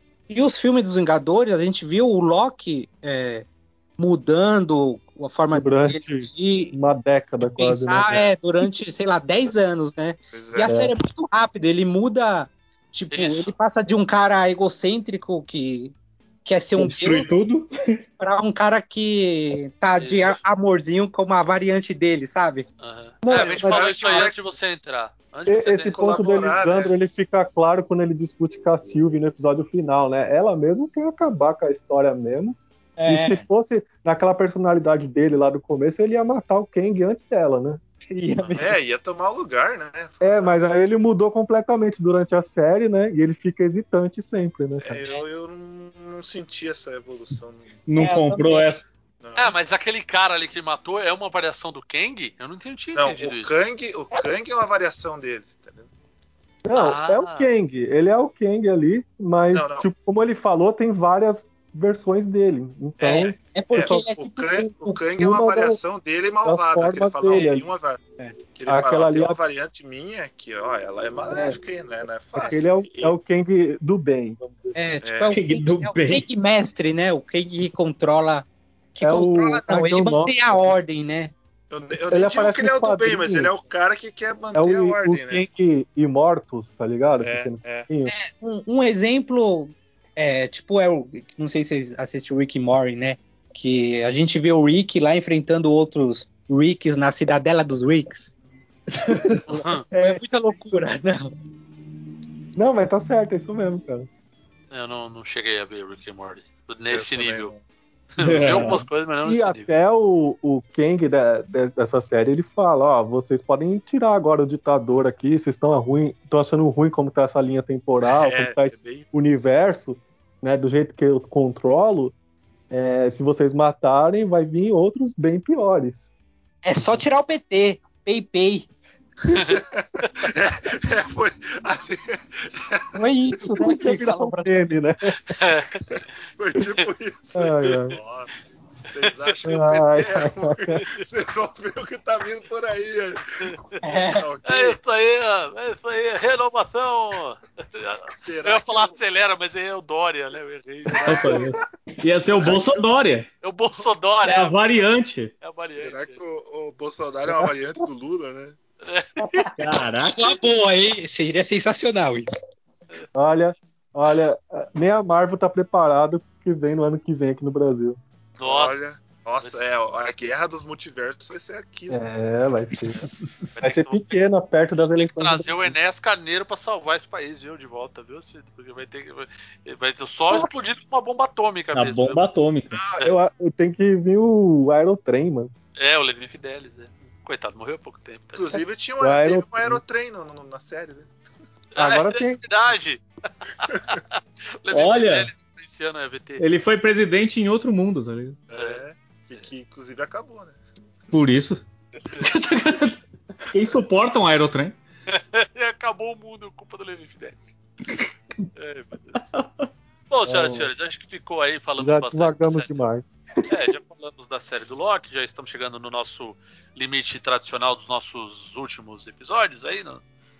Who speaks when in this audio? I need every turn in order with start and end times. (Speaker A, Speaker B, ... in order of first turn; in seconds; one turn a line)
Speaker A: 0.3-3.5
Speaker A: 4.0-6.7
Speaker B: 5.5-8.3
Speaker A: 7.6-17.3
Speaker C: 10.3-10.7
Speaker B: 10.6-10.9
Speaker D: 13.1-13.5
Speaker E: 16.8-18.0
Speaker A: 18.2-22.6
Speaker D: 20.0-20.4
Speaker D: 22.8-26.0
Speaker B: 23.2-24.2
Speaker C: 23.3-24.5
Speaker B: 25.5-32.5
Speaker C: 25.8-26.9
Speaker A: 33.0-33.4
Speaker B: 33.1-37.8
Speaker A: 38.1-38.8
Speaker C: 38.6-40.6
Speaker B: 40.2-45.0
Speaker C: 44.8-47.8
Speaker E: 47.9-48.9
Speaker A: 48.0-48.7
Speaker C: 49.2-49.5
Speaker D: 49.4-53.5
Speaker C: 52.9-55.9
Speaker B: 56.6-67.6
Speaker D: 56.7-57.5
Speaker C: 59.5-59.9
Speaker C: 63.0-73.1
Speaker A: 63.0-65.0
Speaker B: 68.7-69.4
Speaker B: 71.3-71.6
Speaker B: 72.5-74.7
Speaker A: 74.7-81.3
Speaker C: 75.0-75.4
Speaker E: 75.3-76.2
Speaker B: 79.0-80.7
Speaker C: 81.7-85.4
Speaker B: 82.1-83.5
Speaker B: 84.5-88.1
Speaker C: 87.2-87.9
Speaker A: 88.1-98.3
Speaker E: 98.9-99.4
Speaker B: 99.3-100.5
Speaker D: 99.5-99.8
Speaker A: 100.0-101.3
Speaker B: 102.5-104.1
Speaker D: 104.7-107.5
Speaker C: 106.9-107.6
Speaker D: 108.2-109.7
Speaker E: 108.2-108.8
Speaker B: 108.2-108.7
Speaker B: 109.2-122.1
Speaker C: 118.0-119.1
Speaker B: 122.7-126.1
Speaker A: 126.6-128.7
Speaker D: 129.3-129.6
Speaker C: 129.4-133.0
Speaker A: 132.9-134.6
Speaker B: 133.3-135.1
Speaker D: 135.3-135.8
Speaker C: 135.9-138.3
Speaker B: 137.3-138.0
Speaker C: 138.9-143.2
Speaker B: 139.4-140.8
Speaker D: 140.8-141.0
Speaker D: 143.4-143.8
Speaker A: 143.8-144.3
Speaker C: 144.0-144.8
Speaker D: 144.4-151.5
Speaker C: 148.1-149.0
Speaker E: 151.1-153.3
Speaker C: 152.4-152.8
Speaker D: 153.4-154.6
Speaker E: 154.2-155.3
Speaker D: 155.4-156.2
Speaker C: 155.8-158.6
Speaker B: 157.2-157.5
Speaker D: 158.8-159.1
Speaker E: 159.6-160.3
Speaker A: 160.0-162.3
Speaker B: 163.1-168.0
Speaker D: 168.4-169.6
Speaker C: 168.4-172.0
Speaker B: 171.9-175.8
Speaker E: 172.9-173.6
Speaker D: 173.6-174.3
Speaker D: 174.8-182.2
Speaker E: 181.7-182.8
Speaker B: 182.9-185.5
Speaker D: 185.8-188.6
Speaker C: 188.3-191.1
Speaker B: 189.0-189.8
Speaker D: 191.7-196.4
Speaker B: 191.8-192.5
Speaker E: 194.7-195.3
Speaker E: 196.4-198.4
Speaker C: 198.5-200.6
Speaker D: 198.5-198.8
Speaker E: 201.1-201.6
Speaker E: 202.2-203.0
Speaker E: 203.5-204.8
Speaker D: 205.1-207.4
Speaker D: 208.6-209.2
Speaker E: 209.3-209.7
Speaker D: 210.1-212.8
Speaker B: 210.2-210.7
Speaker B: 211.8-213.2
Speaker D: 213.5-220.0